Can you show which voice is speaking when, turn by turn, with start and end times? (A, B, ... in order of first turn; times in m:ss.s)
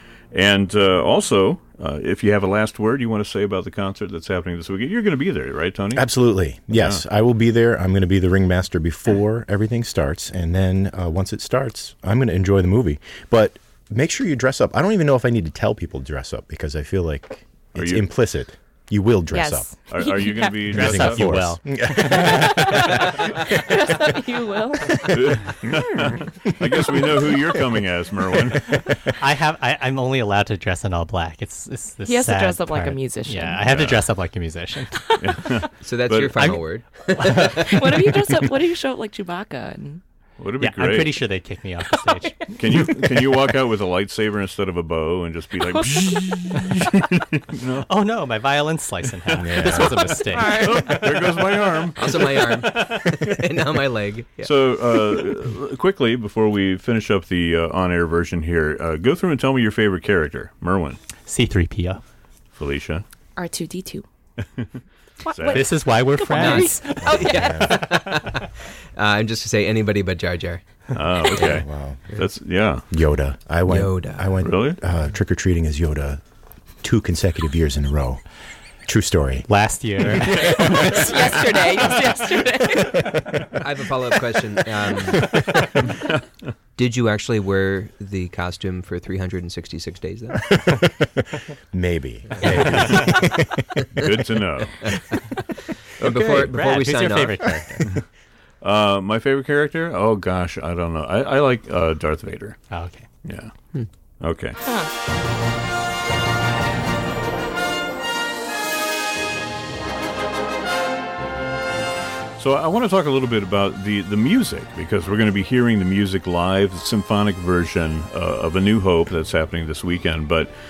0:00.3-0:06.1 A
0:05.9-0:19.7 B
0:06.7-0:07.0 A
0:17.8-0:18.1 A
0:19.3-0:20.6 C
0:19.9-0:21.4 A
0:20.7-0:22.9 D
0:20.7-0:23.7 B
0:22.0-0:25.1 C
0:25.0-0:25.3 B
0:25.1-0:28.8 A
0:26.0-0:27.2 B
0:28.7-0:35.1 D
0:32.1-0:33.6 C
0:33.7-0:34.1 A
0:35.2-0:36.6 A
0:35.8-0:38.0 E
0:37.2-0:37.6 D
0:37.4-0:40.0 C
0:40.4-0:41.2 A
0:40.6-0:42.8 D
0:42.6-0:47.9 A
0:47.8-0:51.2 D
0:49.4-0:49.8 A
0:49.4-0:50.1 B
0:50.2-0:51.0 C
0:50.5-0:52.8 A
0:52.0-0:55.3 E
0:54.4-1:01.0 A
1:01.3-1:02.0 D
1:02.5-1:03.0 A
1:03.4-1:04.1 C
1:04.4-1:04.7 A
1:05.2-1:07.7 C
1:05.3-1:05.7 A
1:05.5-1:08.3 D
1:06.3-1:10.6 E
1:07.0-1:07.9 B
1:11.0-1:12.9 A
1:11.3-1:12.0 B
1:12.9-1:16.2 B
1:13.7-1:14.4 E
1:14.4-1:14.8 A
1:16.8-1:18.2 B
1:18.9-1:19.5 B
1:19.5-1:22.0 D
1:20.3-1:23.2 C
1:23.4-1:25.9 E
1:26.8-1:30.5 E
1:30.4-1:34.1 B
1:32.4-1:33.0 E
1:34.0-1:34.8 A
1:34.8-1:35.1 E
1:36.0-1:37.5 E
1:36.0-1:36.5 A
1:36.0-1:37.8 D
1:38.6-1:42.6 A
1:42.7-1:43.1 D
1:43.2-1:43.5 A
1:44.2-1:44.6 A
1:44.6-1:44.9 C
1:52.4-2:00.5 A